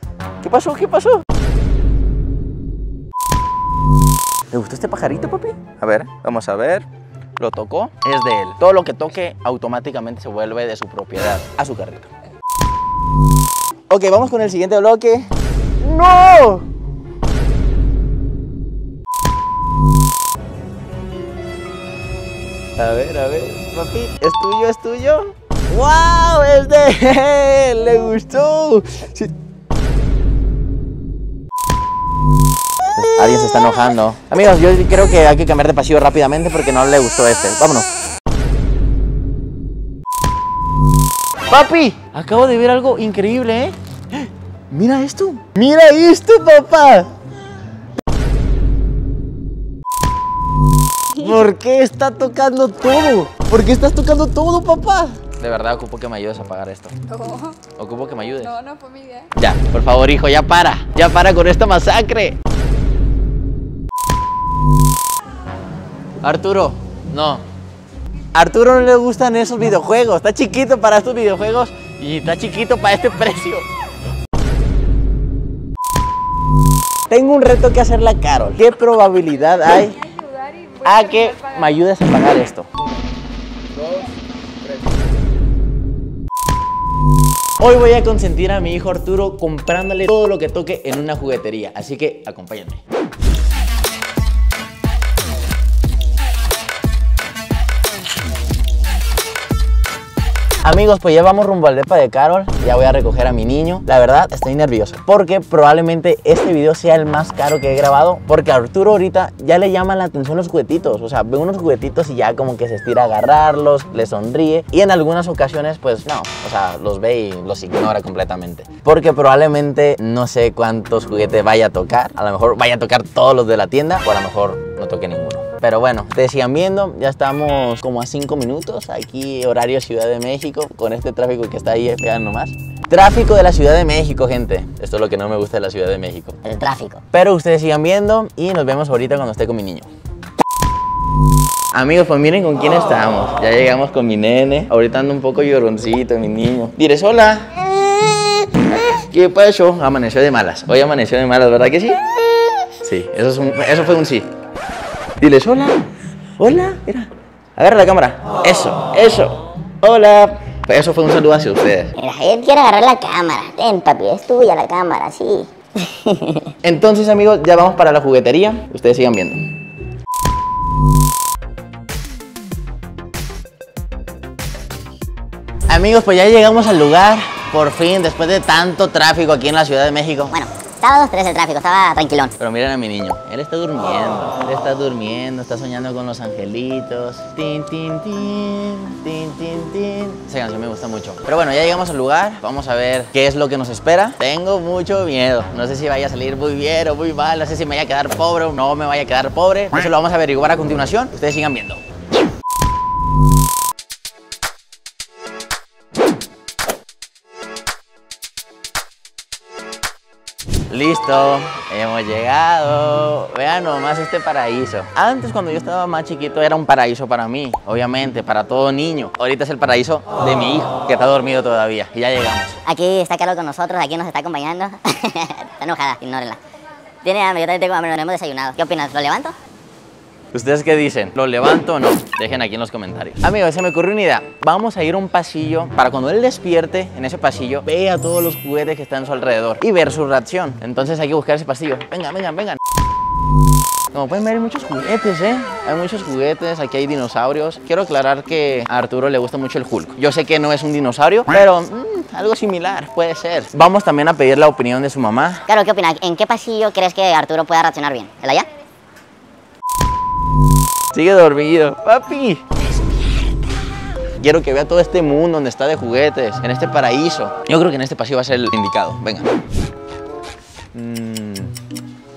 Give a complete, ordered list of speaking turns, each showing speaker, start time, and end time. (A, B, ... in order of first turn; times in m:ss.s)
0:00.4-0:01.2 A
0:04.5-0:06.8 A
0:07.4-0:12.1 A
0:13.9-0:15.3 A
0:15.8-0:16.7 A
0:22.8-0:29.3 A
0:33.0-0:37.9 A
0:41.5-0:47.1 A
0:51.1-0:57.0 A
0:57.1-0:57.6 B
0:57.8-0:58.6 A
0:58.4-0:59.3 B
0:59.3-1:02.4 A
1:06.2-1:07.4 A
1:08.3-1:13.7 A
1:17.1-1:20.0 A
1:19.8-1:21.9 B
1:20.8-1:22.7 A
1:27.6-1:32.8 A
1:40.6-2:16.4 A
2:16.4-2:17.0 C
2:17.1-2:19.9 A
2:21.7-2:34.3 A
2:35.2-2:35.8 A
2:36.4-2:41.9 A
2:42.0-2:46.5 C
2:46.6-2:49.5 A
2:55.7-3:00.3 A
3:00.3-3:02.3 C
3:02.4-3:21.8 A
3:30.7-3:42.6 A
3:42.6-3:46.4 C
3:47.0-3:49.3 C
3:50.3-4:02.6 A
4:03.9-4:15.4 A
4:15.5-4:18.5 C
4:20.9-4:23.2 A
4:24.2-4:29.3 A
4:30.7-4:31.5 A